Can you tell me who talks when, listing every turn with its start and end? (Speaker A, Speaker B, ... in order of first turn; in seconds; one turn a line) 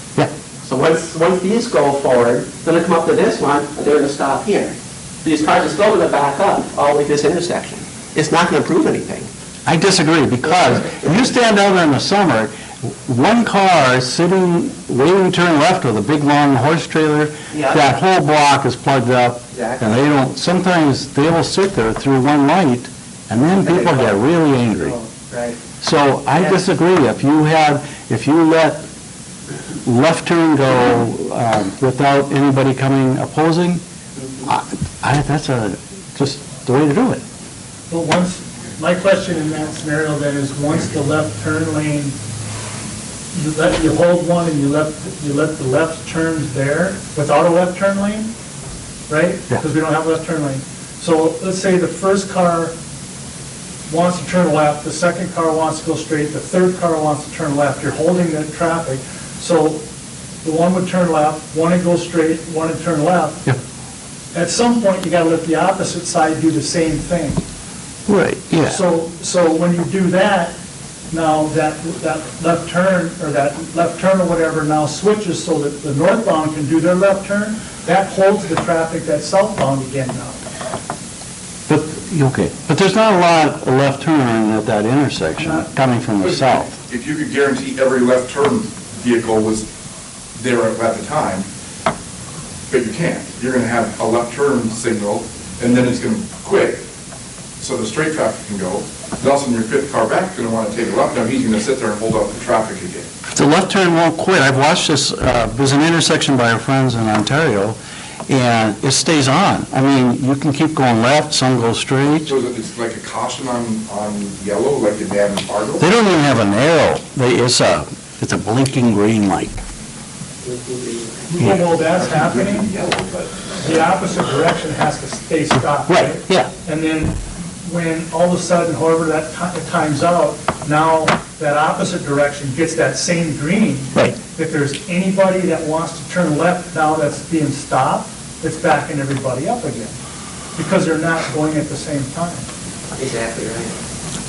Speaker A: 0.6-9.3
Speaker B: 9.7-25.0
Speaker A: 17.5-17.8
Speaker A: 19.5-19.9
Speaker A: 23.6-24.2
Speaker A: 24.8-25.6
Speaker B: 25.8-28.8
Speaker A: 26.3-26.6
Speaker B: 29.8-33.8
Speaker A: 34.2-34.4
Speaker B: 34.4-37.2
Speaker C: 37.9-42.1
Speaker C: 43.3-48.3
Speaker C: 49.1-52.7
Speaker C: 53.9-59.8
Speaker C: 60.4-63.4
Speaker C: 64.3-67.4
Speaker B: 68.1-68.8
Speaker C: 68.7-70.5
Speaker C: 71.1-80.4
Speaker B: 81.7-86.7
Speaker C: 85.4-85.7
Speaker D: 86.2-89.7
Speaker D: 90.3-91.5
Speaker D: 92.7-96.8
Speaker D: 97.6-103.1
Speaker B: 103.3-112.3
Speaker D: 112.2-115.9
Speaker B: 115.8-119.6
Speaker A: 120.4-121.5
Speaker C: 121.4-122.7
Speaker D: 121.5-123.5
Speaker C: 123.6-140.0
Speaker B: 125.9-126.5
Speaker C: 140.6-142.5
Speaker A: 142.9-143.7